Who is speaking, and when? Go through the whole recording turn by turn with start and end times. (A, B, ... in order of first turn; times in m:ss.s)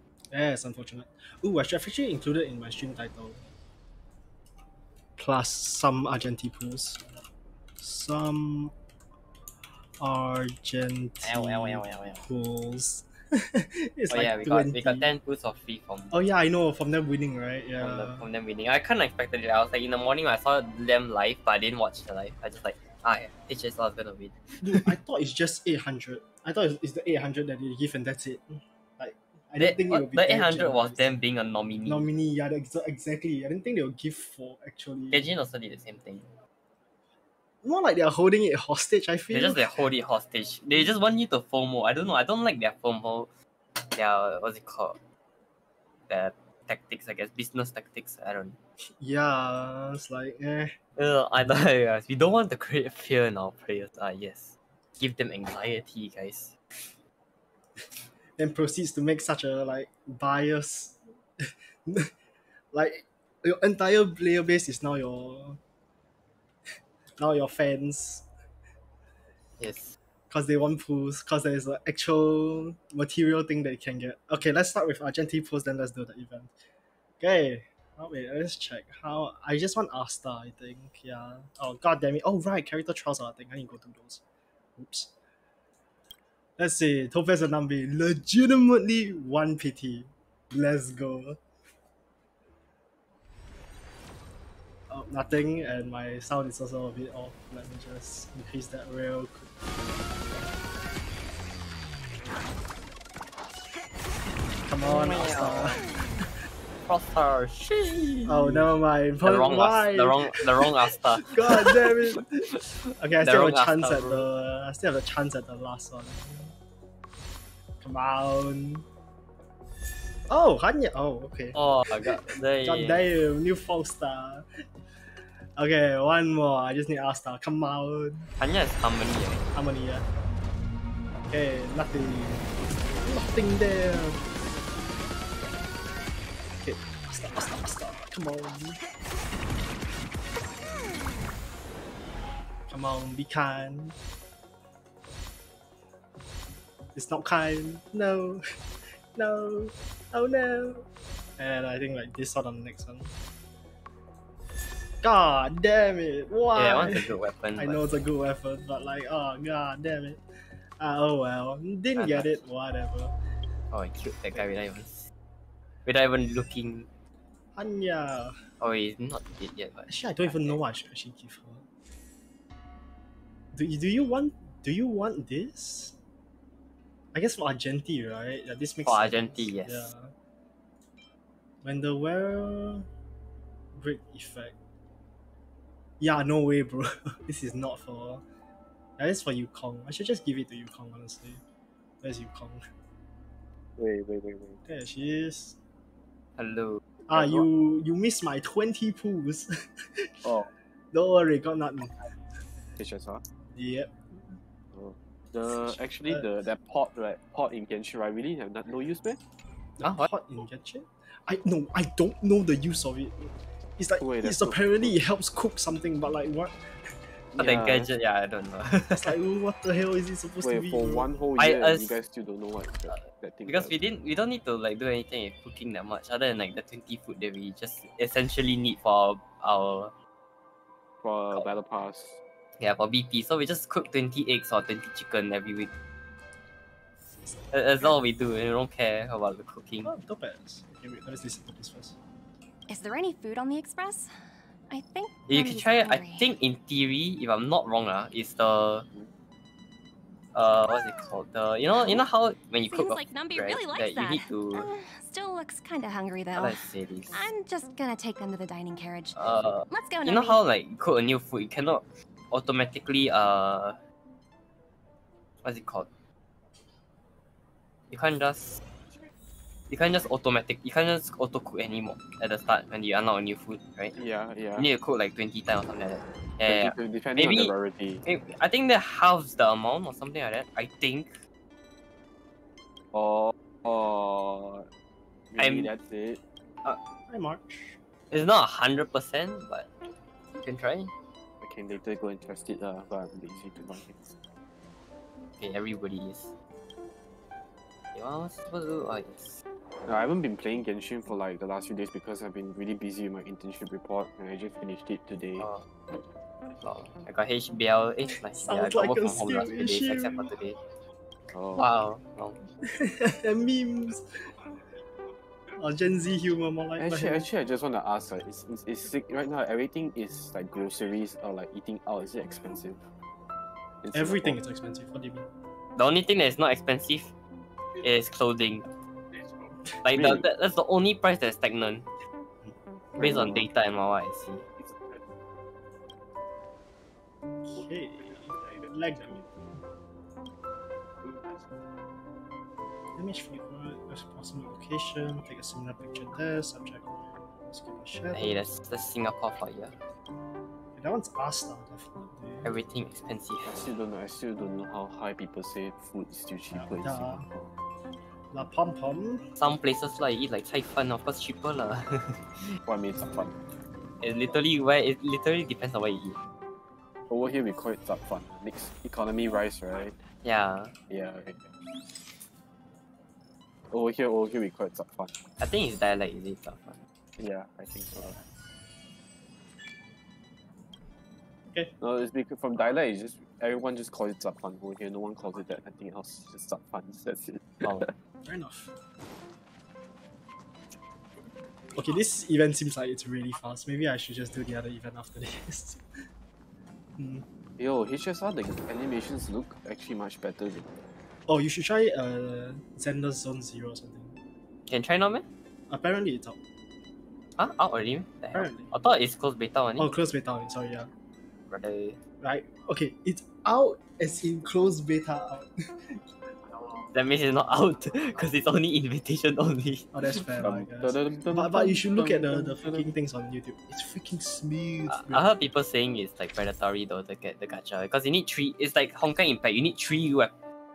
0:00.3-0:03.5 A
0:05.2-0:07.0 A
0:07.8-0:08.7 A
0:10.0-0:15.1 A
0:11.2-0:12.2 B
0:14.1-0:16.2 B
0:16.1-0:18.2 A
0:17.8-0:24.8 B
0:24.6-0:31.0 A
0:29.6-0:32.1 B
0:31.8-0:35.2 A
0:35.1-0:36.3 B
0:37.6-0:39.7 A
0:39.3-0:45.0 B
0:46.1-0:48.6 B
0:48.8-0:50.8 A
0:51.0-0:56.6 B
0:58.4-1:02.1 A
1:02.7-1:05.6 A
1:07.1-1:08.3 A
1:09.6-1:10.0 B
1:10.3-1:16.5 A
1:17.2-1:24.2 A
1:24.8-1:25.1 A
1:26.6-1:31.4 A
1:34.9-1:39.5 A
1:44.6-1:46.3 A
1:44.8-1:45.8 B
1:46.8-1:48.7 B
1:48.2-1:56.5 A
1:49.2-1:52.2 B
1:53.2-1:54.3 B
1:57.8-1:58.8 A
2:00.3-2:04.5 A
2:01.5-2:03.0 B
2:05.6-2:08.3 A
2:08.4-2:09.5 B
2:09.5-2:10.1 A
2:11.3-2:14.2 A
2:16.6-2:18.8 A
2:22.7-2:24.0 A
2:26.9-2:28.4 A
2:29.1-2:30.8 A
2:31.4-2:33.1 A
2:35.0-2:40.2 A
2:36.5-2:38.0 B
2:40.8-2:43.1 A
2:42.0-2:42.4 B
2:43.7-2:45.1 B
2:45.8-2:46.9 B
2:47.5-2:48.3 A
2:48.6-2:50.6 B
2:49.9-2:51.6 A
2:53.5-2:56.0 A
2:57.1-3:00.1 A
2:58.8-2:59.9 B
3:01.6-3:02.9 A
3:03.7-3:04.5 A
3:06.0-3:08.2 A
3:09.0-3:11.4 A
3:12.0-3:12.6 A
3:13.8-3:14.6 C
3:14.6-3:15.6 A
3:16.4-3:16.8 B
3:17.1-3:20.3 A
3:17.1-3:17.4 C
3:20.2-3:20.5 C
3:20.9-3:22.0 A
3:22.8-3:23.2 C
3:23.5-3:24.3 A
3:24.7-3:29.2 C
3:29.8-3:36.6 A
3:34.0-3:34.9 C
3:37.4-3:39.1 B
3:37.4-3:37.9 C
3:38.7-3:41.1 A
3:40.4-3:43.7 C
3:41.4-3:42.0 B
3:42.9-3:49.9 B
3:51.0-3:52.2 C
3:52.6-3:55.7 B
3:57.5-3:59.9 B
3:59.8-4:02.0 A
4:02.7-4:04.1 D
4:04.7-4:06.3 D
4:05.3-4:08.9 B
4:10.3-4:14.7 B
4:12.7-4:20.4 D
4:16.4-4:17.3 B
4:19.2-4:23.8 B
4:25.4-4:25.9 B
4:27.9-4:28.6 B
4:29.7-4:34.0 B
4:33.9-4:34.7 C
4:34.6-4:37.5 B
4:36.4-4:38.0 C
4:38.0-4:41.1 B
4:42.9-4:44.7 C
4:45.3-4:46.2 C
4:45.4-4:45.7 B
4:47.1-4:47.8 A
4:48.1-4:49.7 B
4:50.4-4:50.9 B
4:51.4-4:54.1 C
4:55.4-4:56.3 B
4:57.9-4:59.4 B
4:59.9-5:05.5 C
5:06.6-5:10.6 B
5:08.3-5:10.4 A
5:11.3-5:11.6 C
5:11.5-5:12.4 B
5:12.6-5:14.4 A
5:15.6-5:17.3 A
5:16.8-5:22.8 C
5:23.8-5:24.4 C
5:23.9-5:25.3 A
5:25.8-5:27.1 B
5:27.8-5:28.7 B
5:29.8-5:31.9 B
5:29.9-5:30.2 C
5:33.0-5:33.4 C
5:33.0-5:34.4 B
5:37.4-5:39.2 A
5:43.0-5:48.5 A
5:48.1-5:49.8 B
5:50.8-5:52.5 A
5:52.4-5:53.7 B
5:53.5-5:57.5 C
5:56.5-5:57.3 A
5:58.3-5:59.3 A
5:59.4-6:02.6 B
6:02.6-6:03.4 C
6:04.0-6:06.2 B
6:07.1-6:10.0 C
6:10.2-6:10.7 B
6:10.9-6:11.5 C
6:13.7-6:15.1 C
6:15.4-6:16.8 B
6:17.2-6:18.2 C
6:21.8-6:27.9 C
6:28.2-6:28.7 A
6:31.7-6:35.8 A
6:37.0-6:37.2 A
6:37.6-6:40.7 C
6:41.3-6:44.2 A
6:44.7-6:45.2 B
6:45.7-6:46.4 A
6:47.4-6:49.9 B
6:48.3-6:48.7 A
6:49.8-6:50.9 A
6:51.5-6:52.0 B
6:52.2-6:56.0 A
6:56.9-6:59.9 B
6:59.9-7:05.3 A
7:00.4-7:02.8 C
7:04.9-7:10.3 B